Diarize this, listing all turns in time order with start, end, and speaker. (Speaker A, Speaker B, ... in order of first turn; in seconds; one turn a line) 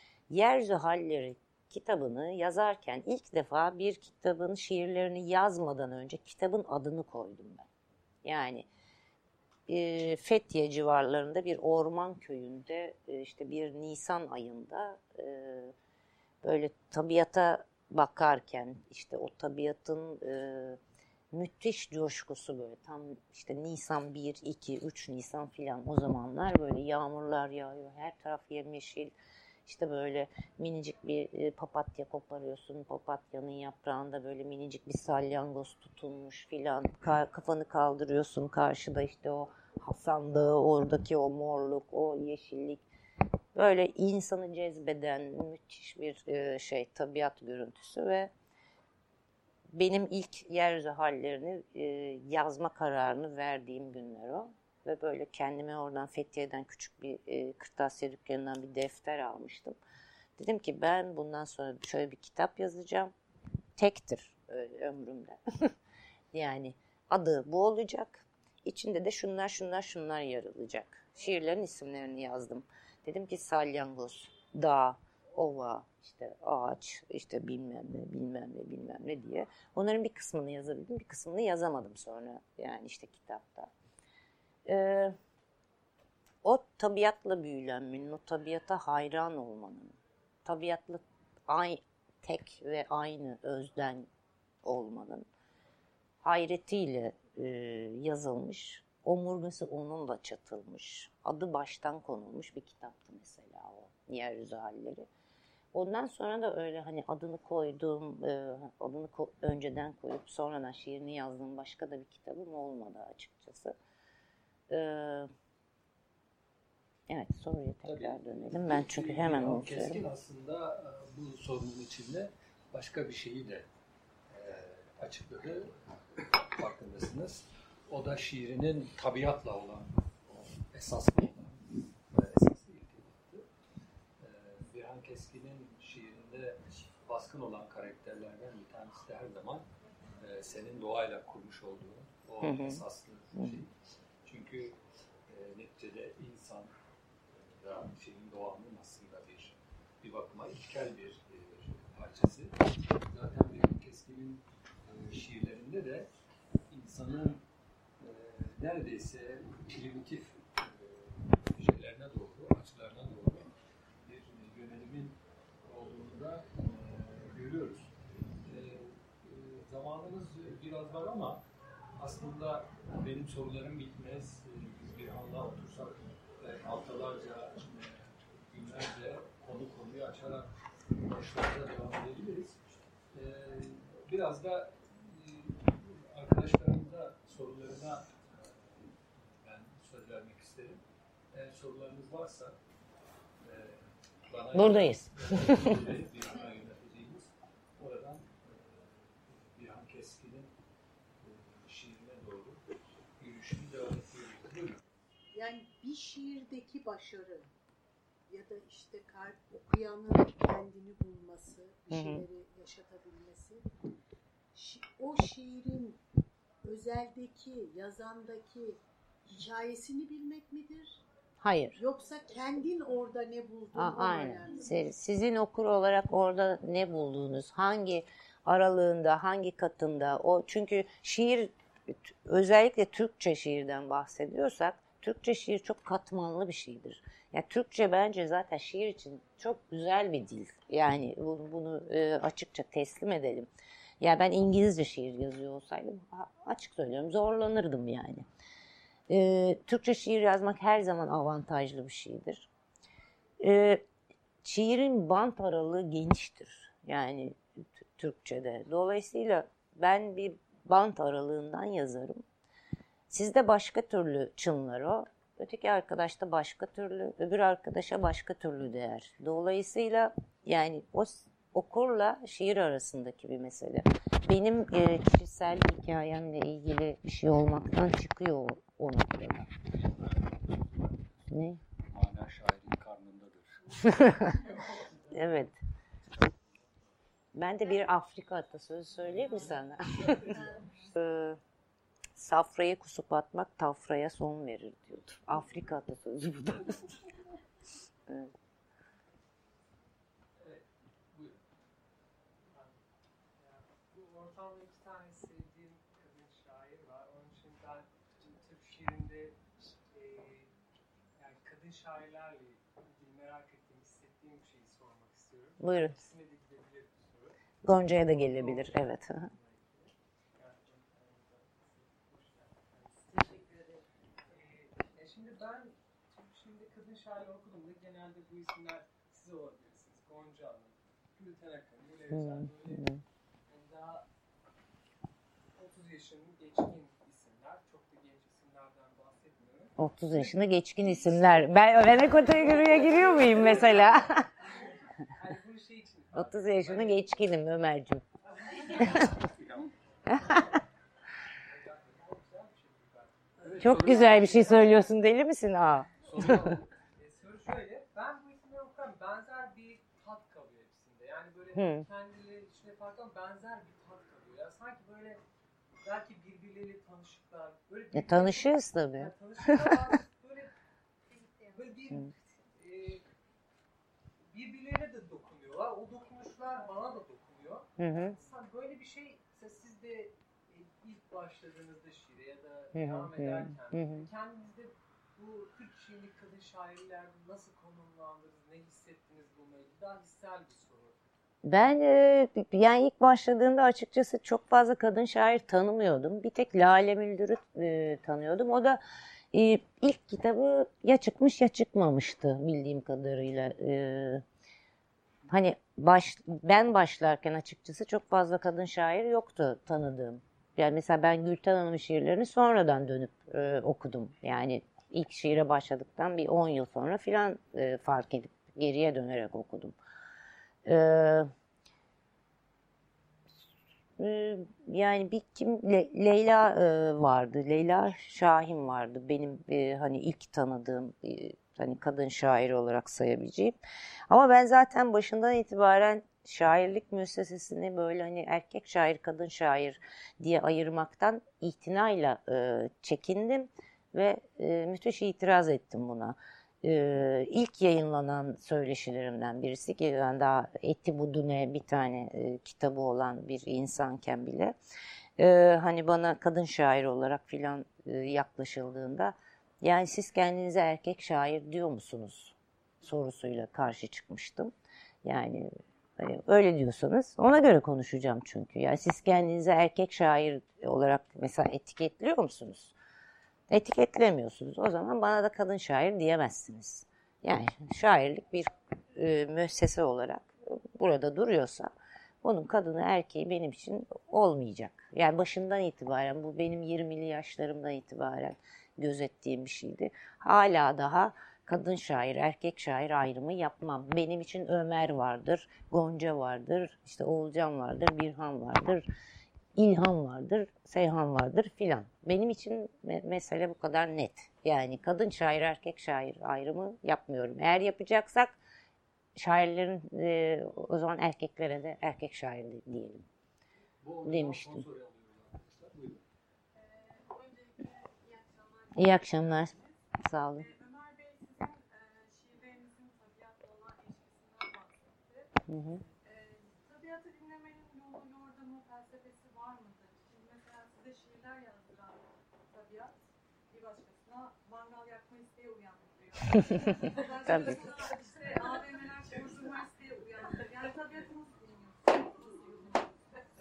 Speaker A: 0.3-7.7
Speaker A: 8.2-8.7
Speaker A: 9.7-15.7
Speaker A: 16.4-20.8
Speaker A: 21.3-29.1
Speaker A: 29.6-42.8
Speaker A: 43.5-48.3
Speaker A: 49.7-59.8
Speaker A: 60.4-63.1
Speaker A: 63.8-65.7
Speaker A: 66.3-83.7
Speaker A: 84.7-85.2
Speaker A: 86.4-94.1
Speaker A: 94.6-95.2
Speaker A: 96.2-105.0
Speaker A: 105.7-113.8
Speaker A: 114.7-115.3
Speaker A: 117.1-120.0
Speaker B: 117.8-123.7
Speaker B: 124.3-133.4
Speaker B: 134.2-139.7
Speaker B: 140.2-143.7
Speaker A: 142.4-142.8
Speaker B: 144.2-146.7
Speaker B: 147.3-156.1
Speaker B: 156.7-157.4
Speaker B: 158.0-163.5
Speaker B: 164.0-167.9
Speaker B: 168.4-171.4
Speaker B: 172.0-182.6
Speaker B: 183.1-190.8
Speaker B: 191.3-192.6
Speaker B: 193.4-200.5
Speaker A: 194.5-195.8
Speaker B: 201.2-202.6
Speaker B: 203.2-204.8
Speaker C: 205.3-207.5
Speaker C: 208.3-213.6
Speaker A: 211.9-212.2
Speaker C: 214.5-216.0
Speaker C: 216.6-221.0
Speaker A: 221.4-221.8
Speaker C: 221.8-224.9
Speaker A: 223.7-243.5
Speaker A: 244.0-248.2
Speaker A: 249.1-252.5
Speaker A: 253.4-253.8
Speaker A: 254.4-262.2
Speaker A: 263.1-279.5
Speaker B: 279.9-281.1
Speaker A: 281.3-281.6
Speaker B: 281.9-283.8
Speaker D: 283.8-285.3
Speaker A: 283.8-284.4
Speaker A: 285.1-285.6
Speaker A: 287.3-291.4
Speaker D: 289.8-290.5
Speaker A: 292.1-297.0
Speaker B: 300.4-301.3
Speaker D: 302.5-302.8
Speaker D: 303.4-310.5
Speaker D: 311.2-317.3
Speaker A: 315.6-316.0
Speaker A: 317.6-319.3
Speaker D: 317.9-332.9
Speaker A: 332.1-333.0
Speaker D: 333.5-334.1
Speaker D: 335.6-339.7
Speaker A: 339.8-344.3
Speaker D: 341.8-347.2
Speaker A: 346.1-348.0
Speaker D: 348.3-349.2
Speaker A: 348.8-349.1
Speaker B: 349.2-349.7
Speaker A: 350.1-350.5
Speaker D: 350.1-350.6
Speaker D: 351.4-354.9
Speaker B: 353.4-354.7
Speaker A: 353.6-356.5
Speaker B: 356.0-356.6
Speaker D: 356.2-365.2
Speaker A: 361.5-361.9
Speaker D: 365.8-370.5
Speaker A: 367.9-369.8
Speaker E: 371.1-371.9
Speaker D: 371.5-373.0
Speaker D: 374.3-391.0
Speaker A: 377.8-378.1
Speaker A: 382.7-384.1
Speaker A: 391.4-398.8
Speaker A: 399.3-404.2
Speaker A: 405.3-419.8
Speaker A: 420.6-421.3
Speaker A: 424.0-433.6
Speaker A: 434.1-454.5
Speaker A: 455.2-464.5
Speaker A: 465.0-472.7
Speaker A: 473.5-481.7
Speaker A: 482.2-498.9
Speaker A: 499.6-508.4
Speaker A: 509.1-513.1
Speaker B: 513.8-516.0
Speaker A: 514.0-514.6
Speaker E: 516.5-525.3
Speaker A: 518.7-520.5
Speaker A: 525.5-525.8
Speaker E: 526.0-533.0
Speaker E: 533.5-543.0
Speaker A: 536.3-537.6